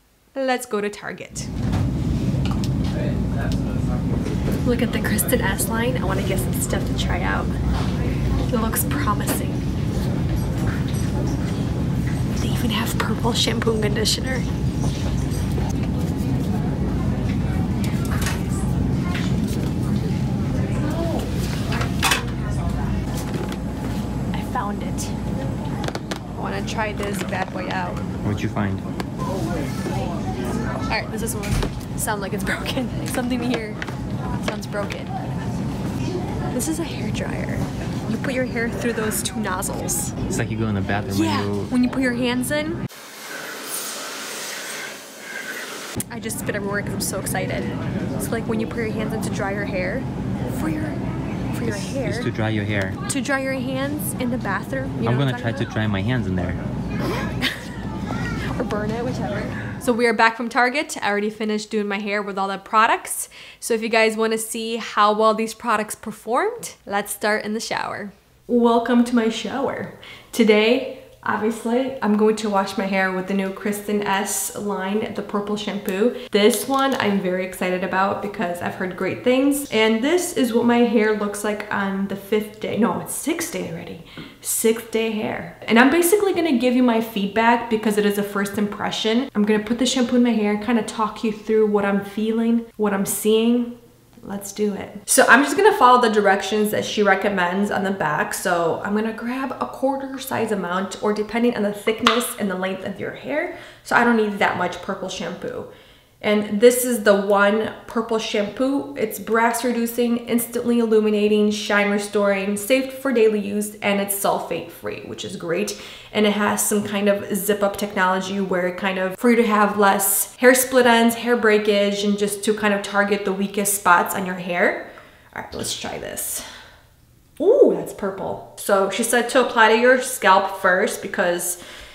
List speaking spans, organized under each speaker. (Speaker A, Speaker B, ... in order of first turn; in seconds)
Speaker A: 0.3-1.5, 4.6-7.5, 8.5-9.6, 12.3-14.5, 24.3-25.1, 26.4-28.1, 30.9-33.8, 34.4-35.1, 36.5-40.2, 41.1-42.8, 46.1-51.0, 51.5-52.3, 53.1-55.7, 57.2-57.6, 58.5-105.7, 106.2-126.5, 127.4-131.6
Speaker B: 28.2-28.9, 40.3-41.7, 51.6-53.0, 55.0-56.6